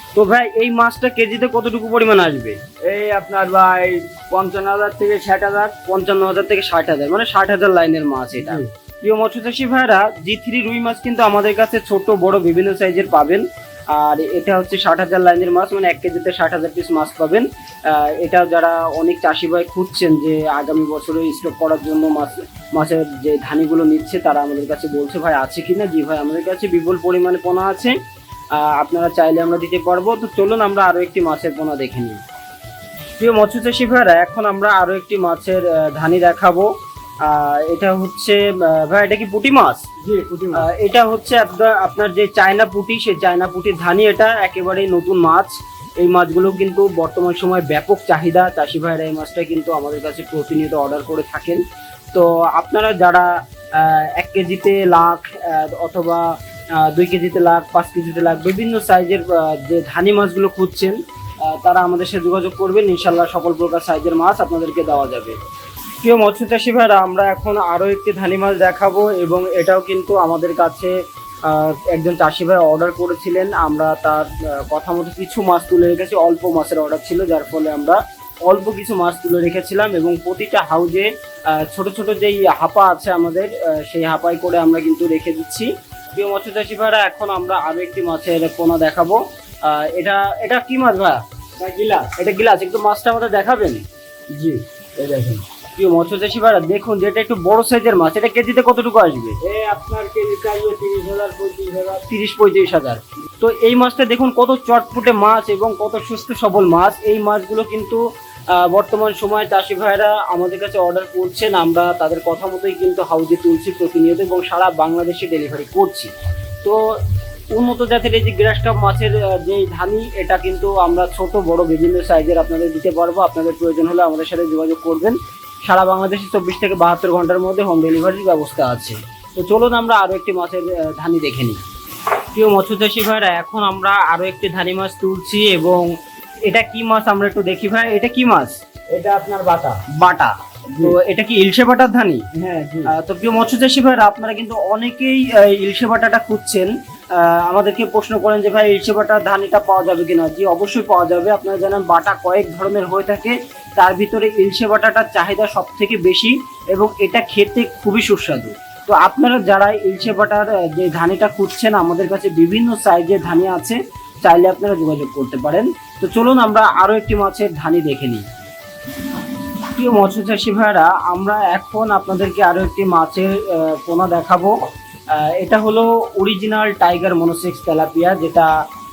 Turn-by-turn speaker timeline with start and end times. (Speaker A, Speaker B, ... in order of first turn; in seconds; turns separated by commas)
Speaker A: 0.1-2.7, Speaker B: 2.8-5.7, Speaker A: 5.5-28.0, Speaker A: 28.5-32.2, Speaker A: 33.2-36.7, Speaker A: 37.2-39.9, Speaker B: 40.0-40.6, Speaker A: 40.5-65.4, Speaker A: 66.0-91.2, Speaker B: 91.6-92.1, Speaker A: 92.0-93.8, Speaker B: 94.3-95.4, Speaker A: 95.7-99.4, Speaker B: 99.4-102.0, Speaker A: 102.0-116.1, Speaker A: 116.6-117.0, Speaker A: 117.5-131.6, Speaker A: 132.3-138.6, Speaker B: 138.9-139.8, Speaker A: 139.8-142.3, Speaker B: 142.3-142.9, Speaker A: 142.8-168.2, Speaker A: 169.6-174.6, Speaker A: 175.1-178.5